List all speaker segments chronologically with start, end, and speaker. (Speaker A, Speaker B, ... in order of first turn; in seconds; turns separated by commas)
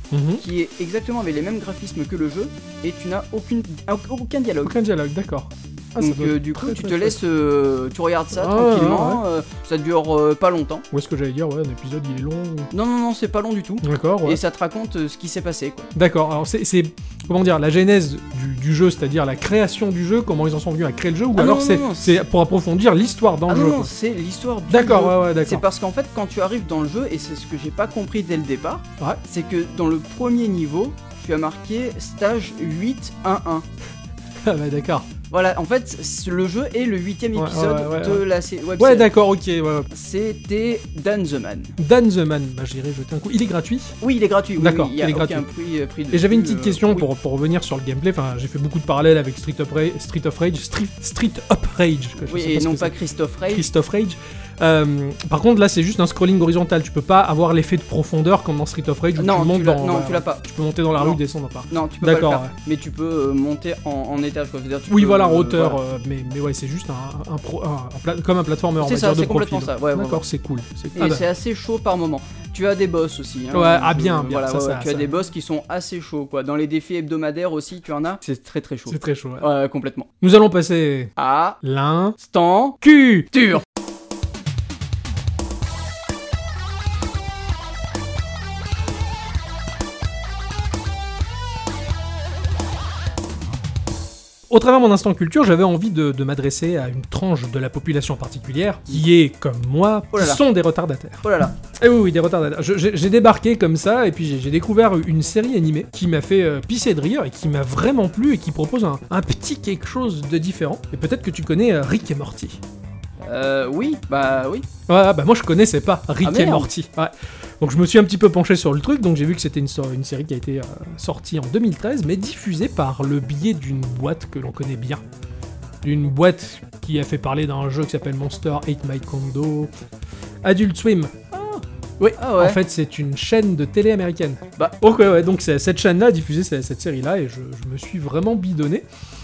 Speaker A: 0.1-0.4, Speaker B: 0.4-4.8, Speaker A: 4.6-7.2, Speaker B: 6.0-10.8, Speaker A: 8.3-9.2, Speaker A: 10.9-12.7, Speaker B: 12.7-15.9, Speaker A: 13.8-14.4, Speaker A: 15.9-23.9, Speaker B: 21.3-22.2, Speaker B: 23.5-33.6, Speaker A: 24.7-25.6, Speaker A: 34.4-35.1, Speaker B: 35.3-39.1, Speaker A: 37.3-38.2, Speaker A: 38.8-39.9, Speaker B: 39.9-41.8, Speaker A: 41.8-44.0, Speaker B: 44.0-47.1, Speaker A: 44.6-45.4, Speaker A: 46.1-52.9, Speaker B: 52.3-53.7, Speaker A: 53.5-62.5, Speaker B: 59.2-60.4, Speaker B: 61.0-65.8, Speaker A: 64.9-71.3, Speaker B: 68.8-70.2, Speaker B: 70.9-80.1, Speaker A: 73.5-75.1, Speaker A: 78.9-79.5, Speaker A: 80.2-81.1, Speaker B: 81.2-81.6, Speaker A: 81.6-82.2, Speaker B: 82.2-83.6, Speaker A: 82.8-83.2, Speaker A: 94.5-112.6, Speaker B: 100.1-100.4, Speaker B: 101.2-101.6, Speaker B: 113.2-114.7, Speaker A: 114.9-125.0, Speaker B: 116.2-116.7, Speaker A: 125.8-129.7, Speaker A: 130.4-138.8, Speaker B: 132.2-132.6